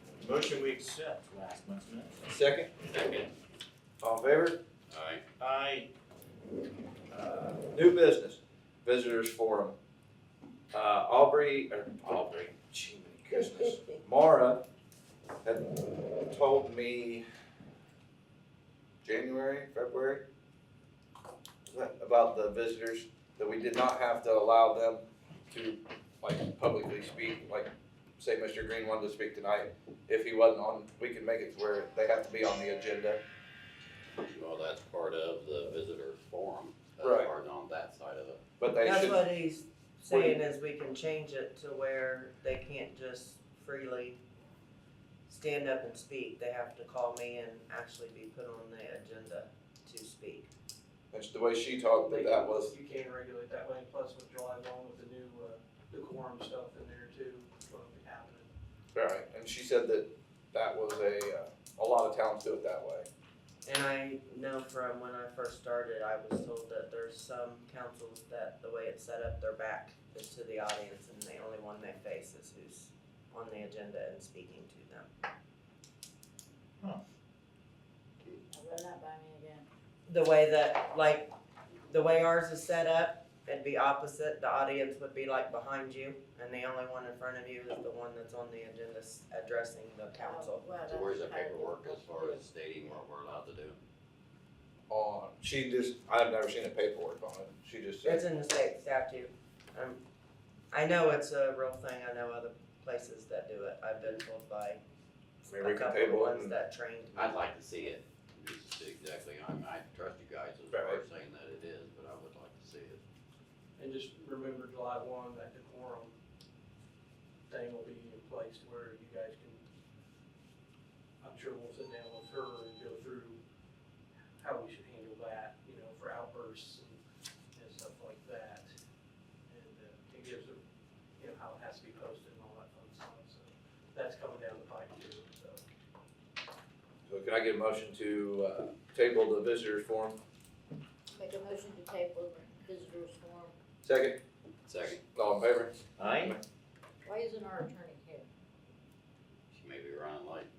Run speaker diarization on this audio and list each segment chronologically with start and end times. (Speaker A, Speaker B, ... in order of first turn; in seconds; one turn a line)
Speaker A: 0.2-2.2
Speaker B: 2.2-2.7
Speaker C: 2.9-3.3
Speaker B: 4.0-4.6
Speaker C: 4.9-5.2
Speaker A: 5.4-5.9
Speaker B: 7.1-9.8
Speaker B: 10.7-14.6
Speaker B: 15.4-17.2
Speaker B: 19.0-20.2
Speaker B: 21.7-33.2
Speaker C: 34.2-38.4
Speaker B: 37.0-37.3
Speaker B: 38.6-39.2
Speaker D: 38.8-44.2
Speaker B: 40.1-40.4
Speaker D: 45.3-50.5
Speaker B: 51.1-52.7
Speaker E: 52.0-58.5
Speaker B: 59.0-63.1
Speaker D: 63.6-75.1
Speaker F: 78.5-79.7
Speaker D: 80.1-81.3
Speaker D: 81.9-90.6
Speaker F: 90.2-92.4
Speaker C: 90.9-93.8
Speaker B: 94.9-98.2
Speaker D: 98.0-100.0
Speaker D: 100.7-104.8
Speaker D: 105.4-107.4
Speaker B: 105.5-106.6
Speaker C: 107.1-113.0
Speaker B: 110.7-111.0
Speaker E: 113.8-116.1
Speaker E: 117.5-119.6
Speaker E: 121.2-123.4
Speaker E: 124.4-127.0
Speaker E: 127.5-128.7
Speaker E: 129.5-130.6
Speaker E: 131.2-135.6
Speaker B: 137.1-140.2
Speaker F: 141.1-143.6
Speaker B: 143.8-144.2
Speaker C: 144.7-145.0
Speaker B: 145.1-146.4
Speaker A: 146.0-146.4
Speaker F: 147.0-148.3
Speaker C: 149.5-150.5